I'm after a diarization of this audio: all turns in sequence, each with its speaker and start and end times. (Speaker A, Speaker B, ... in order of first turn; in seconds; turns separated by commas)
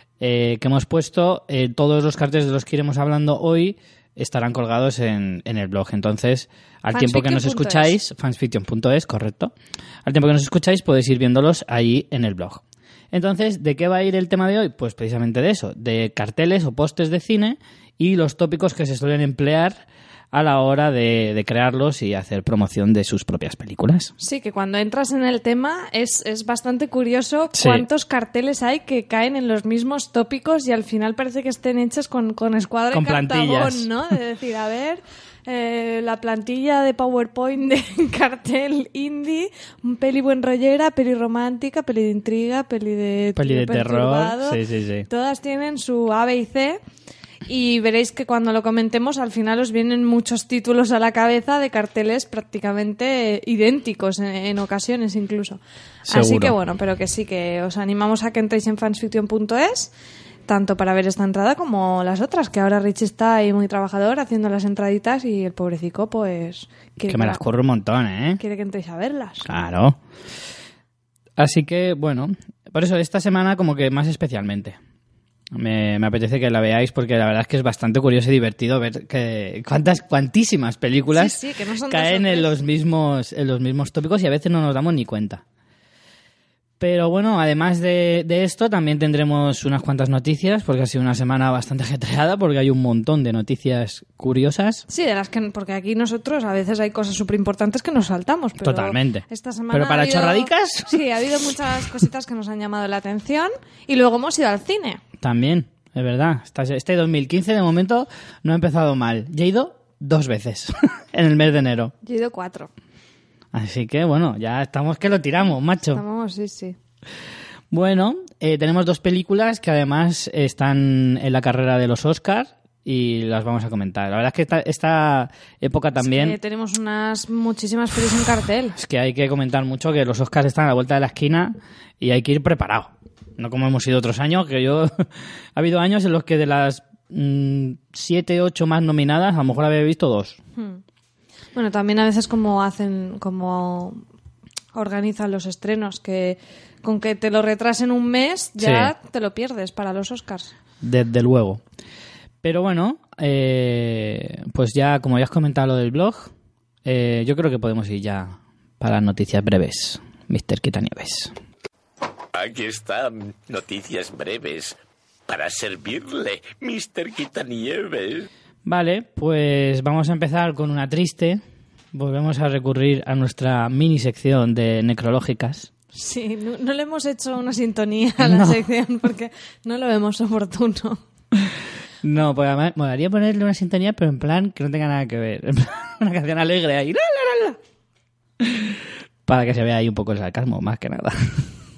Speaker A: 0.2-9.5, Speaker B: 6.9-7.9, Speaker A: 10.1-19.8, Speaker A: 20.3-24.1, Speaker B: 24.2-46.8, Speaker A: 27.6-27.9, Speaker A: 32.9-33.9, Speaker A: 43.4-45.1, Speaker B: 47.5-59.9, Speaker A: 56.1-56.5, Speaker B: 60.5-67.4, Speaker A: 67.1-68.4, Speaker B: 68.4-69.5, Speaker A: 69.5-70.0, Speaker A: 71.4-74.8, Speaker A: 75.5-85.4, Speaker B: 81.1-82.5, Speaker A: 86.8-94.8, Speaker B: 94.9-105.0, Speaker A: 98.6-101.0, Speaker A: 105.2-111.9, Speaker B: 112.0-112.7, Speaker A: 113.5-116.0, Speaker B: 115.9-116.8, Speaker A: 117.7-126.4, Speaker B: 126.0-128.8, Speaker A: 128.8-140.4, Speaker B: 140.6-140.8, Speaker B: 141.6-144.0, Speaker B: 144.7-150.5, Speaker A: 148.6-148.9, Speaker A: 150.8-151.6, Speaker A: 152.4-156.3, Speaker A: 156.8-161.3, Speaker C: 162.3-164.8, Speaker C: 165.3-168.3, Speaker A: 168.7-171.4, Speaker A: 171.9-175.7, Speaker B: 175.9-181.0, Speaker A: 178.2-178.6, Speaker A: 182.0-187.6, Speaker A: 188.4-191.5